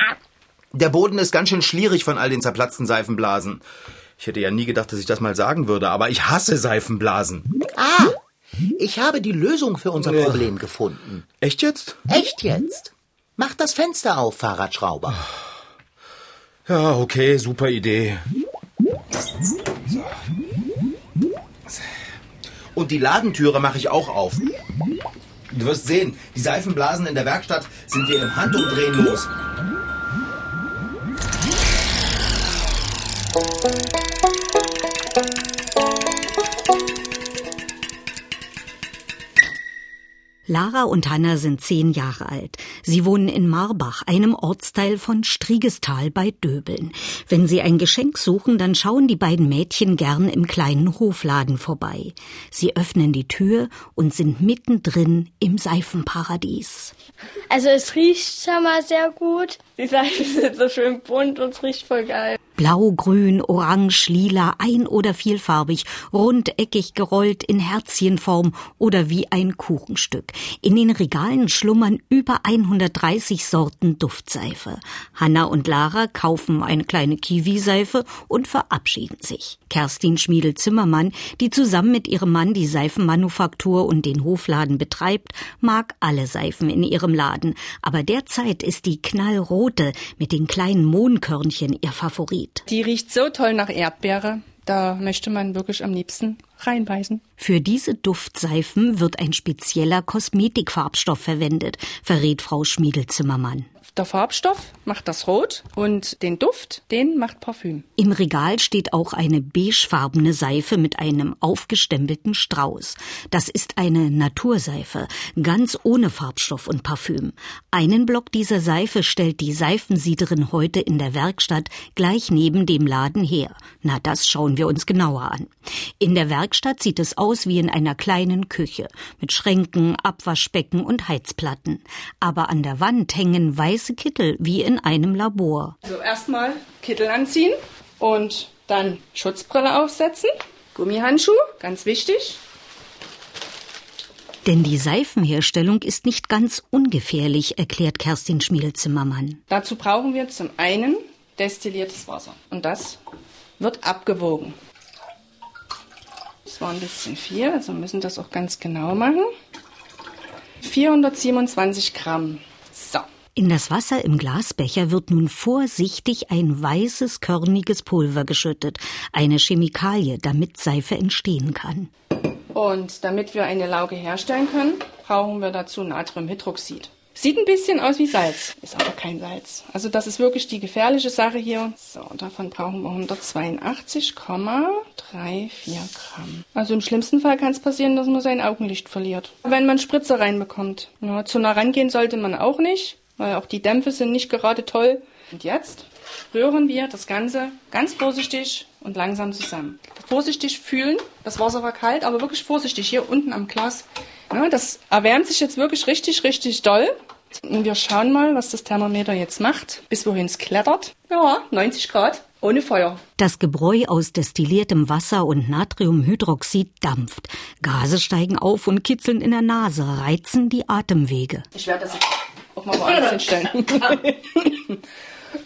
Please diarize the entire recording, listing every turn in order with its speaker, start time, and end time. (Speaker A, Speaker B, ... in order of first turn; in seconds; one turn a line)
Speaker A: 0.7-3.6
Speaker A: 4.2-7.5
Speaker B: 7.7-8.2
Speaker B: 8.8-11.2
Speaker A: 10.0-10.5
Speaker A: 11.4-12.0
Speaker B: 12.1-15.2
Speaker A: 16.6-18.2
Speaker A: 19.9-20.2
Speaker A: 22.7-24.4
Speaker A: 25.5-29.3
Speaker C: 40.5-56.9
Speaker D: 57.5-62.4
Speaker C: 62.6-92.7
Speaker E: 92.7-97.2
Speaker C: 97.4-103.7
Speaker E: 103.9-107.9
Speaker C: 108.0-135.8
Speaker E: 135.8-142.4
Speaker C: 144.4-149.4
Speaker E: 149.5-153.0
Speaker E: 153.6-154.6
Speaker E: 156.4-159.3
Speaker E: 160.6-163.1
Speaker C: 163.3-171.9
Speaker E: 172.5-213.0
Speaker C: 213.2-221.4
Speaker E: 221.5-224.8